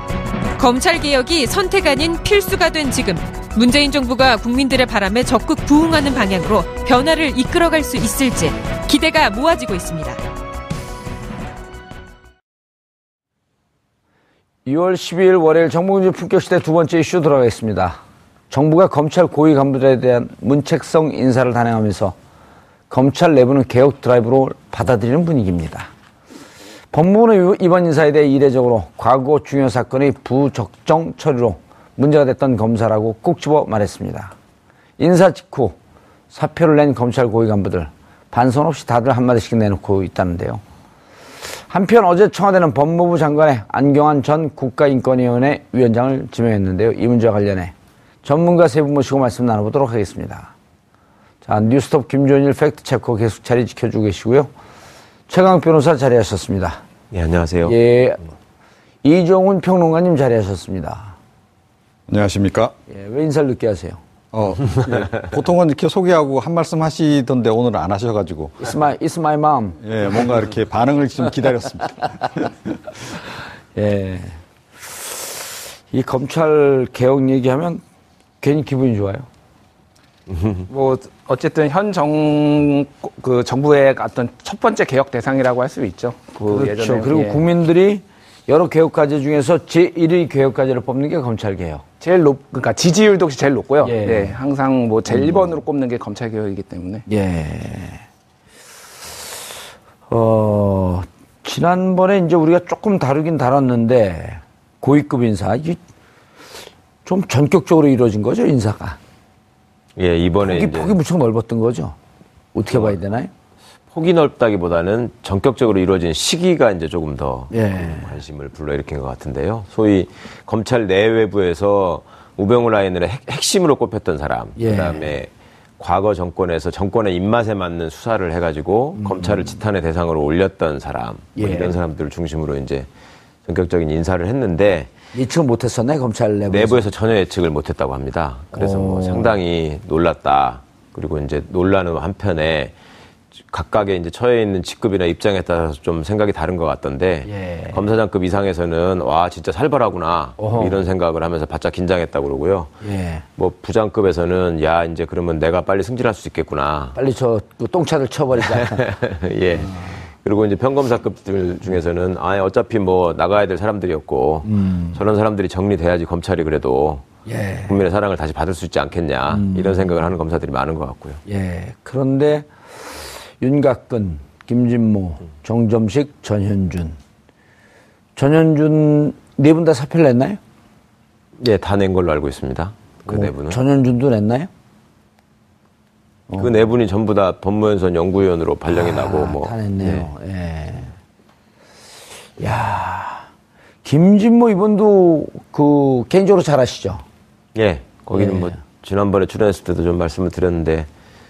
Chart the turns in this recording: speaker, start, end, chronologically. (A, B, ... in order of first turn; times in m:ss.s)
0:00.6-0:10.2 A
0:14.7-0:22.2 B
0:22.9-0:25.9 B
0:26.9-0:34.3 B
0:35.0-0:35.8 B
0:36.3-0:40.6 B
0:41.7-0:47.7 B
0:48.2-0:50.5 B
0:51.4-0:54.5 B
0:55.3-0:56.8 B
0:57.1-0:57.8 C
0:57.6-0:58.2 B
0:59.0-1:01.2 B
1:02.1-1:02.8 D
1:02.9-1:04.0 B
1:04.3-1:08.8 D
1:08.6-1:09.8 B
1:09.8-1:12.5 D
1:13.8-1:15.3 B
1:15.9-1:17.8 B
1:18.4-1:19.3 B
1:20.3-1:20.6 C
1:20.7-1:27.4 E
1:26.4-1:31.8 B
1:32.0-1:37.0 E
1:33.8-1:34.4 B
1:35.1-1:35.5 B
1:37.1-1:38.0 B
1:40.1-1:45.8 B
1:47.0-1:49.0 B
1:50.0-1:51.0 C
1:50.4-1:52.0 B
1:52.5-1:53.3 B
1:52.7-1:53.0 C
1:53.9-2:12.9 C
1:57.5-1:58.2 B
2:04.6-2:05.1 B
2:09.0-2:09.6 B
2:11.4-2:11.8 B
2:13.5-2:14.9 C
2:15.1-2:16.9 B
2:16.5-2:22.7 C
2:18.5-2:19.4 B
2:23.5-2:32.7 C
2:27.3-2:27.8 B
2:30.4-2:30.8 B
2:32.8-2:33.2 B
2:33.4-2:37.0 C
2:37.0-2:38.8 B
2:38.4-2:47.1 C
2:39.6-2:40.0 B
2:44.4-2:45.0 B
2:47.3-2:47.8 B
2:47.7-2:51.2 C
2:49.3-2:49.9 B
2:51.3-2:57.0 B
2:58.2-3:00.4 B
3:01.4-3:03.6 C
3:03.1-3:04.5 B
3:06.3-3:06.6 B
3:06.4-3:10.1 C
3:08.7-3:10.9 B
3:12.4-3:13.3 B
3:13.8-3:17.0 B
3:17.6-3:20.9 C
3:18.1-3:18.6 B